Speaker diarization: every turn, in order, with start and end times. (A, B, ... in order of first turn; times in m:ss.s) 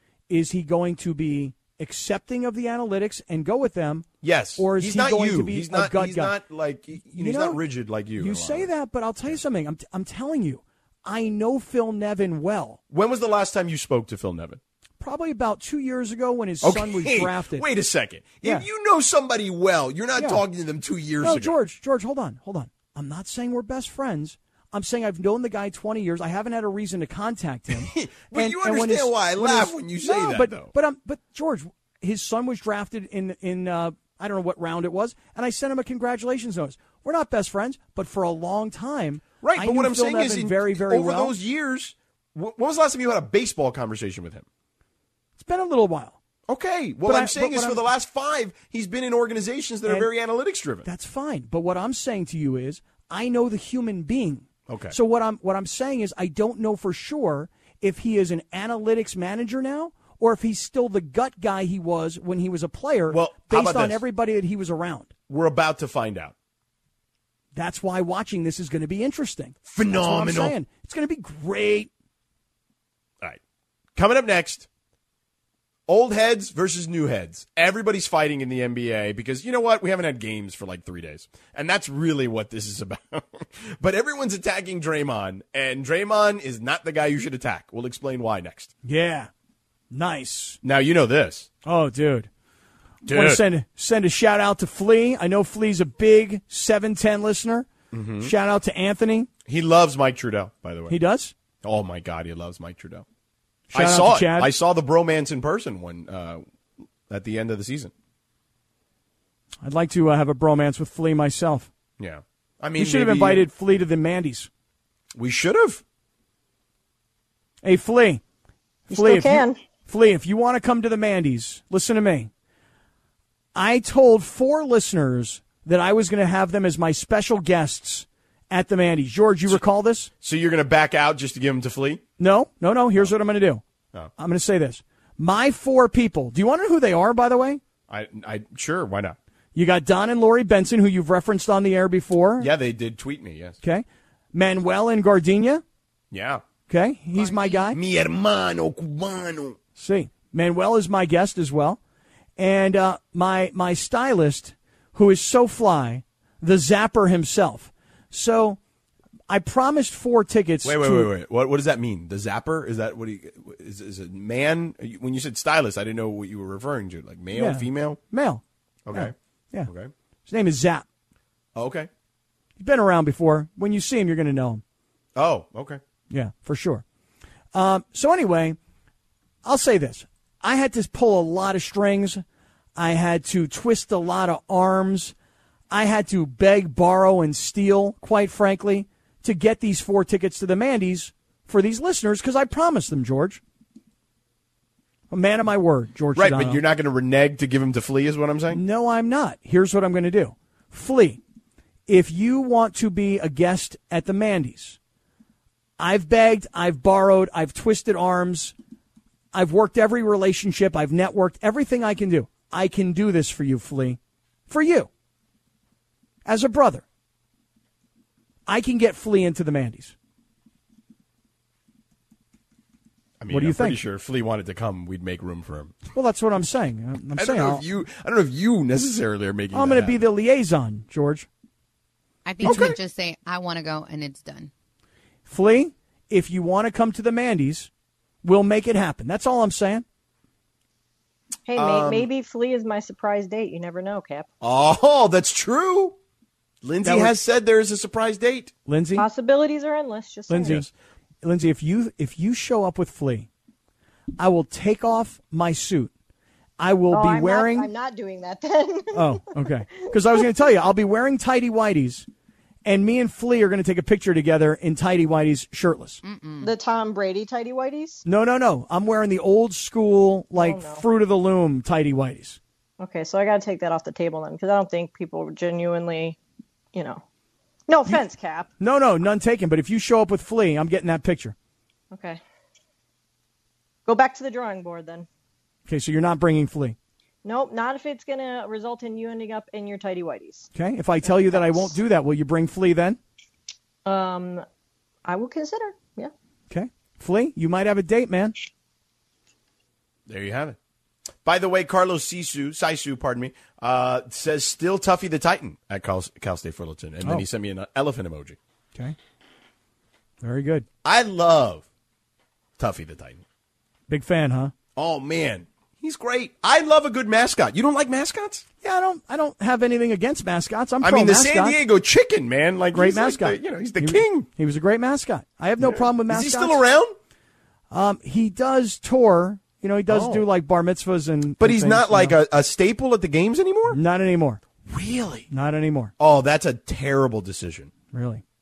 0:00.3-0:06.4 A
0:04.2-0:08.7 B
0:07.1-0:07.6 A
0:08.2-0:12.8 A
0:12.9-0:14.6 B
0:15.0-0:17.6 A
0:16.6-0:21.5 B
0:20.2-0:20.4 A
0:21.2-0:41.3 A
0:27.7-0:30.7 B
0:39.4-0:44.5 B
0:45.4-0:46.2 A
0:46.5-0:50.9 B
0:47.1-0:47.8 A
0:50.9-1:05.1 A
0:54.7-0:54.9 B
1:03.1-1:04.0 B
1:05.3-1:06.3 B
1:07.6-1:11.9 A
1:09.7-1:10.6 B
1:14.0-1:14.7 B
1:15.9-1:28.7 B
1:28.8-1:29.3 A
1:29.9-1:30.6 A
1:30.6-1:31.5 B
1:31.6-1:32.3 A
1:33.1-1:33.4 B
1:33.1-1:37.7 A
1:37.9-1:38.3 B
1:38.2-1:39.3 A
1:39.5-1:41.0 B
1:40.9-1:41.3 A
1:41.6-1:43.0 B
1:43.7-1:44.5 A
1:43.7-1:46.4 B
1:47.1-1:47.9 B
1:49.6-1:51.7 A
1:52.0-1:53.5 B
1:52.8-1:54.5 A
1:55.1-1:55.8 B
1:57.6-1:58.2 A
1:58.9-1:59.6 C
1:58.9-2:02.3 A
2:03.6-2:10.1 A
2:10.2-2:12.0 B
2:12.2-2:13.6 A
2:14.2-2:17.6 A
2:17.9-2:19.2 B
2:19.6-2:22.5 A
2:22.4-2:23.6 B
2:23.6-2:25.6 A
2:26.1-2:26.4 B
2:26.7-2:27.8 A
2:27.2-2:27.6 D
2:27.7-2:29.6 B
2:29.8-2:31.8 A
2:32.4-2:38.6 A
2:39.3-2:41.1 A
2:40.6-2:48.0 B
2:47.3-2:49.7 A
2:48.9-2:49.1 B
2:49.7-2:49.9 B
2:50.3-2:50.8 A
2:51.6-2:51.9 B
2:52.6-2:54.6 A
2:55.2-2:55.8 B
2:56.1-2:56.8 A
2:57.5-2:58.6 A
2:59.4-3:02.2 A
3:02.8-3:05.1 A
3:05.7-3:13.4 A
3:15.1-3:16.6 A
3:16.2-3:18.6 B
3:18.5-3:21.2 A
3:21.9-3:24.8 A
3:25.8-3:28.5 A
3:29.3-3:34.9 A
3:36.3-3:36.8 A
3:38.5-3:39.9 A
3:43.2-3:45.8 B
3:43.3-3:43.8 A
3:46.0-3:47.6 A
3:47.2-3:50.0 B
3:49.5-3:51.3 A
3:52.2-3:54.5 D
3:52.4-3:52.8 B
3:52.5-3:52.7 A
3:55.3-3:57.7 A
3:58.2-3:59.8 A
4:01.5-4:04.3 C
4:01.6-4:02.1 B
4:04.4-4:06.0 B
4:06.6-4:08.5 B
4:06.8-4:07.1 A
4:08.7-4:09.1 A
4:09.0-4:10.6 C
4:10.3-4:10.7 A
4:11.2-4:13.3 A
4:14.2-4:15.9 A
4:16.6-4:17.7 A
4:16.9-4:19.2 C
4:18.9-4:22.1 A
4:22.6-4:26.0 A
4:26.0-4:26.5 D
4:26.4-4:28.0 C
4:28.0-4:32.4 A
4:30.4-4:30.8 C
4:32.8-4:36.2 C
4:36.7-4:37.0 C
4:37.7-4:38.5 C
4:38.6-4:41.4 A
4:41.9-4:42.2 C
4:43.9-4:45.1 C
4:45.7-4:46.8 A
4:47.2-4:50.5 C
4:50.6-4:53.0 A
4:51.0-4:51.8 C
4:53.9-4:54.4 C
4:55.0-4:56.1 C
4:56.5-4:58.4 A
5:00.1-5:00.6 B
5:01.2-5:08.4 B
5:10.2-5:10.7 A
5:10.8-5:11.6 B
5:12.6-5:13.2 B
5:13.9-5:14.5 A
5:14.8-5:18.4 B
5:18.6-5:21.6 A
5:20.8-5:24.3 B
5:22.7-5:26.6 A
5:25.6-5:27.0 B
5:27.7-5:32.2 A
5:29.9-5:30.3 B
5:31.4-5:33.8 B
5:33.7-5:34.4 A
5:34.7-5:35.3 B
5:35.3-5:35.9 A
5:36.0-5:37.7 B
5:37.9-5:38.2 A